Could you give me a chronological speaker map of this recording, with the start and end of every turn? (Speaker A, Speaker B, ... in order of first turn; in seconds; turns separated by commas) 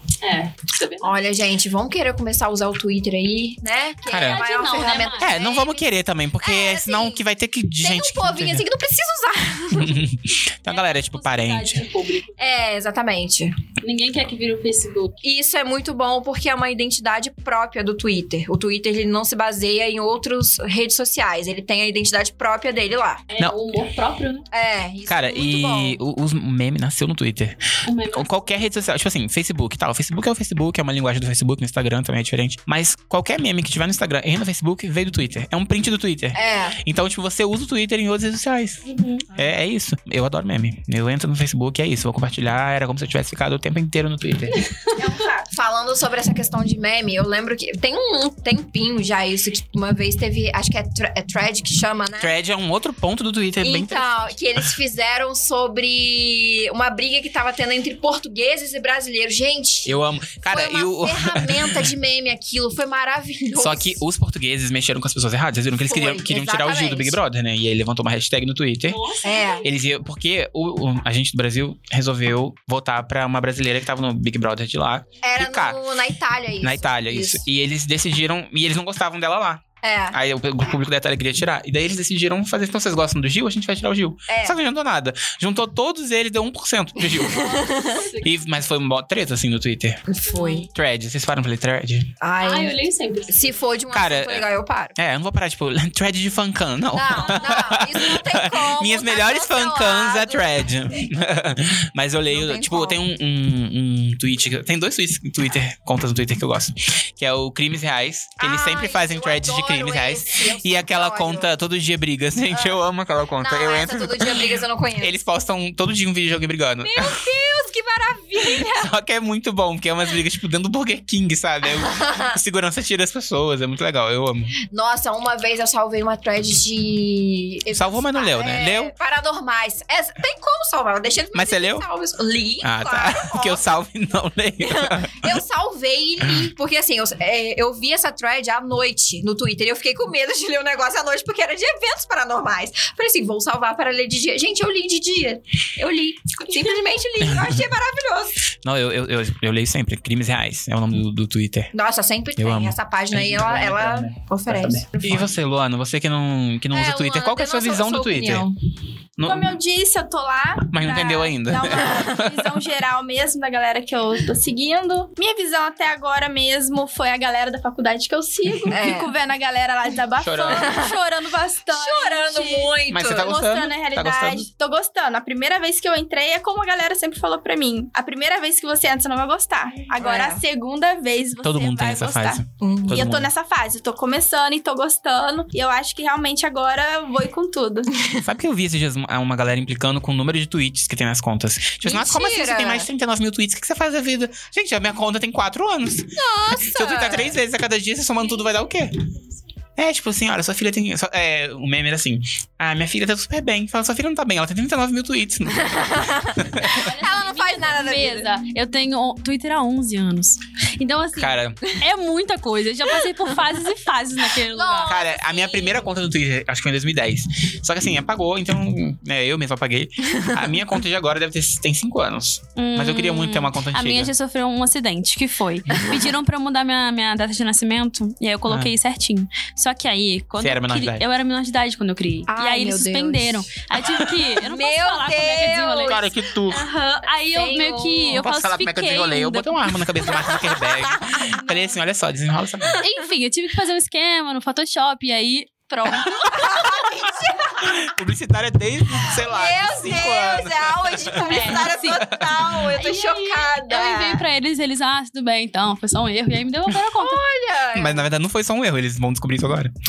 Speaker A: 0.2-1.2, Speaker B: 1.0-5.8, Speaker C: 4.1-4.4, Speaker A: 4.1-5.4, Speaker C: 5.2-8.6, Speaker B: 6.4-7.2, Speaker B: 7.8-10.1, Speaker C: 9.8-11.8, Speaker A: 10.7-12.6, Speaker B: 12.4-13.5, Speaker A: 13.8-15.2, Speaker B: 15.2-23.2, Speaker A: 23.3-24.4, Speaker B: 24.5-26.0, Speaker C: 25.1-27.6, Speaker A: 27.9-28.5, Speaker C: 28.1-44.7, Speaker B: 36.3-36.8, Speaker A: 38.9-39.2, Speaker A: 44.5-45.1, Speaker D: 45.0-45.5, Speaker B: 45.5-52.3, Speaker C: 52.2-54.4, Speaker B: 53.6-64.0, Speaker C: 59.9-61.9, Speaker C: 63.6-69.0, Speaker B: 65.9-67.2, Speaker A: 68.9-69.7, Speaker B: 69.2-69.7, Speaker C: 69.6-75.8, Speaker B: 75.2-77.4, Speaker C: 76.6-87.5, Speaker B: 79.8-80.2, Speaker B: 84.3-84.6, Speaker B: 87.1-88.1, Speaker A: 87.2-88.3, Speaker C: 88.2-90.0, Speaker B: 90.1-90.7, Speaker A: 90.3-90.7, Speaker C: 90.7-92.1, Speaker B: 92.2-92.7, Speaker A: 92.4-93.5, Speaker B: 93.3-94.9, Speaker C: 93.9-117.2, Speaker B: 96.9-101.0, Speaker B: 102.3-103.0, Speaker B: 108.4-111.5, Speaker B: 112.5-112.8, Speaker B: 113.4-115.2, Speaker B: 116.8-118.9, Speaker C: 118.4-124.5, Speaker B: 121.8-122.4, Speaker B: 124.7-133.7, Speaker C: 127.7-128.9, Speaker C: 131.3-131.9, Speaker C: 132.6-135.4, Speaker B: 134.6-148.4, Speaker C: 147.2-147.5, Speaker C: 148.6-151.7, Speaker B: 151.7-155.3, Speaker C: 152.4-158.4, Speaker B: 156.7-158.6, Speaker C: 159.2-159.6, Speaker D: 159.2-187.9, Speaker C: 160.7-162.6, Speaker B: 168.7-169.1, Speaker C: 170.2-170.8, Speaker B: 170.5-171.0, Speaker B: 171.7-173.3, Speaker C: 172.9-174.5, Speaker B: 180.0-180.4, Speaker C: 181.4-183.3, Speaker B: 182.6-183.1, Speaker B: 187.9-188.2, Speaker C: 188.2-199.0, Speaker B: 191.8-192.9, Speaker B: 196.1-197.4, Speaker C: 199.8-206.8, Speaker B: 205.5-208.3, Speaker A: 206.6-215.0, Speaker C: 211.1-211.6, Speaker B: 214.4-215.9, Speaker C: 214.8-224.1, Speaker A: 222.6-236.1, Speaker C: 230.4-231.0, Speaker B: 232.3-238.2, Speaker C: 235.8-236.6, Speaker A: 237.0-239.8, Speaker C: 238.1-242.8, Speaker B: 240.0-241.3, Speaker B: 242.6-243.0, Speaker A: 242.8-246.4, Speaker B: 245.9-247.8, Speaker C: 247.6-252.6, Speaker B: 249.1-254.2, Speaker A: 251.2-252.0, Speaker A: 252.7-257.2, Speaker B: 257.0-258.0, Speaker C: 257.7-259.7